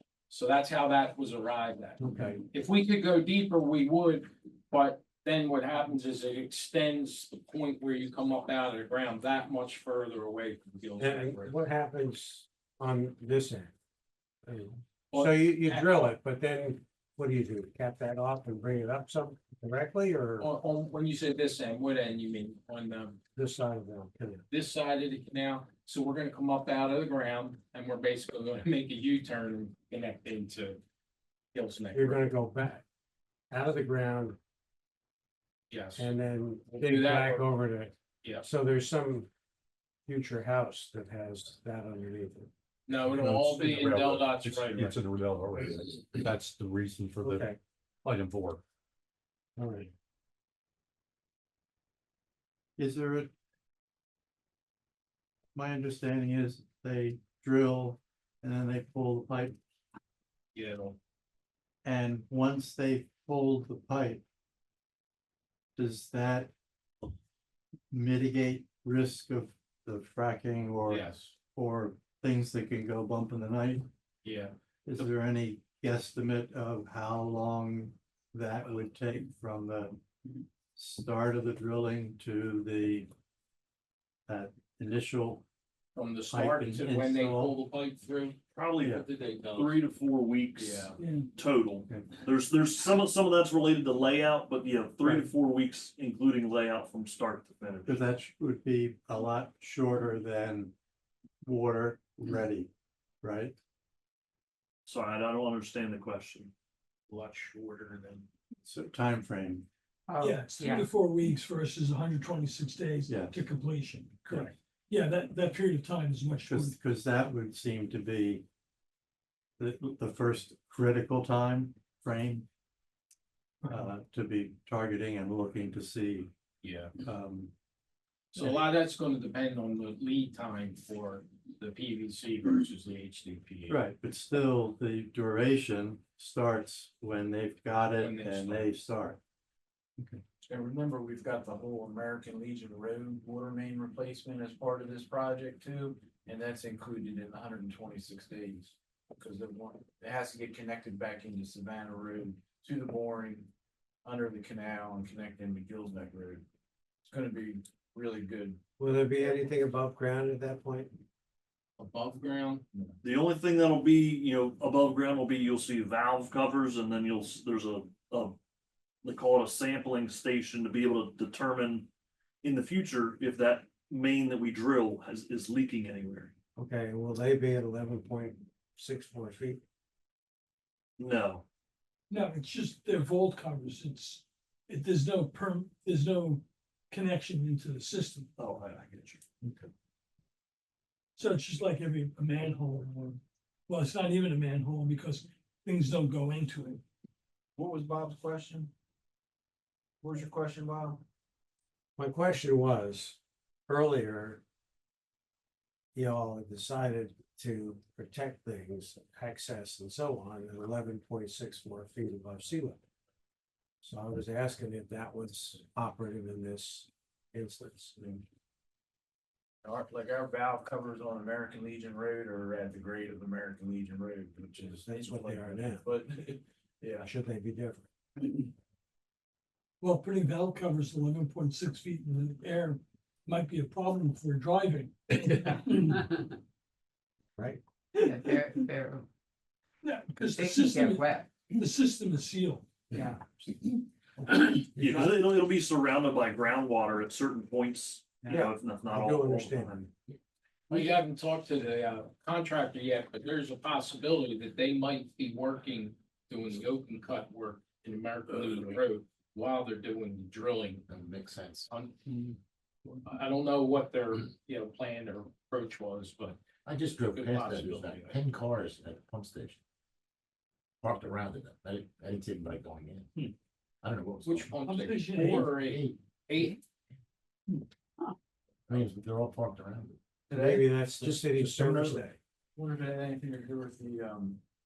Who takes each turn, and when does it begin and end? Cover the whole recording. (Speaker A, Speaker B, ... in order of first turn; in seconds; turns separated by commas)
Speaker A: 0.3-2.0, Speaker B: 2.0-2.4, Speaker A: 2.5-11.5, Speaker B: 11.0-13.7, Speaker B: 14.5-20.5, Speaker A: 15.1-16.1, Speaker A: 20.4-23.2, Speaker B: 23.4-24.4, Speaker A: 24.5-30.8, Speaker A: 31.5-32.3, Speaker B: 31.9-32.8, Speaker B: 33.5-34.4, Speaker A: 35.7-36.1, Speaker B: 36.0-39.3, Speaker A: 36.7-37.5, Speaker B: 40.1-42.5, Speaker A: 42.9-45.0, Speaker C: 43.0-47.5, Speaker B: 47.2-47.6, Speaker C: 48.0-48.6, Speaker B: 49.6-49.9, Speaker D: 52.8-53.3, Speaker D: 55.5-59.6, Speaker A: 60.5-61.0, Speaker D: 61.8-64.2, Speaker D: 65.8-66.5, Speaker D: 67.9-73.9, Speaker A: 70.9-71.3, Speaker A: 74.2-75.0, Speaker D: 74.9-80.0, Speaker D: 80.8-83.1, Speaker D: 84.3-85.5, Speaker A: 86.0-89.8, Speaker D: 86.3-87.6, Speaker E: 88.6-89.0, Speaker E: 89.5-98.0, Speaker F: 91.0-91.3, Speaker D: 97.8-100.8, Speaker D: 101.4-102.7, Speaker D: 103.2-103.6, Speaker E: 104.9-106.5, Speaker G: 107.1-108.2, Speaker D: 108.6-109.7, Speaker H: 110.1-110.9, Speaker F: 110.2-116.8, Speaker D: 113.1-113.4, Speaker D: 116.4-118.5, Speaker D: 119.6-122.5, Speaker D: 123.7-126.3, Speaker A: 126.6-126.9, Speaker D: 127.0-127.5, Speaker A: 128.3-133.8, Speaker D: 128.4-128.6, Speaker D: 133.7-139.2, Speaker A: 138.0-138.7, Speaker G: 140.4-153.5, Speaker G: 154.0-156.4, Speaker G: 157.1-158.6, Speaker B: 158.8-161.0, Speaker A: 161.8-162.6, Speaker E: 163.0-168.4, Speaker E: 169.0-171.9, Speaker E: 172.4-176.3, Speaker B: 176.6-179.6, Speaker E: 181.0-181.4, Speaker F: 182.1-188.3, Speaker E: 188.4-189.2, Speaker F: 191.2-196.8, Speaker G: 197.6-198.7, Speaker G: 200.0-201.0, Speaker B: 202.0-204.4, Speaker B: 205.9-212.8, Speaker B: 213.8-218.2, Speaker G: 219.6-227.0, Speaker B: 224.8-225.8, Speaker B: 227.0-227.9, Speaker F: 229.8-236.2, Speaker B: 237.4-237.6, Speaker F: 237.9-238.7, Speaker H: 237.9-239.1, Speaker F: 239.8-243.8, Speaker H: 240.2-241.3, Speaker H: 242.9-243.2, Speaker E: 244.3-249.8, Speaker B: 248.2-249.9, Speaker A: 250.7-260.9, Speaker I: 250.7-251.0, Speaker I: 260.9-261.7, Speaker A: 261.7-262.3, Speaker A: 263.0-266.4, Speaker I: 266.6-269.6, Speaker A: 267.1-268.2, Speaker I: 270.8-273.1, Speaker I: 273.8-274.6, Speaker A: 274.2-276.6, Speaker F: 274.6-275.5, Speaker I: 275.1-276.4, Speaker I: 278.7-280.0, Speaker G: 280.3-281.0, Speaker B: 280.3-282.2, Speaker I: 281.0-282.0, Speaker G: 282.6-284.4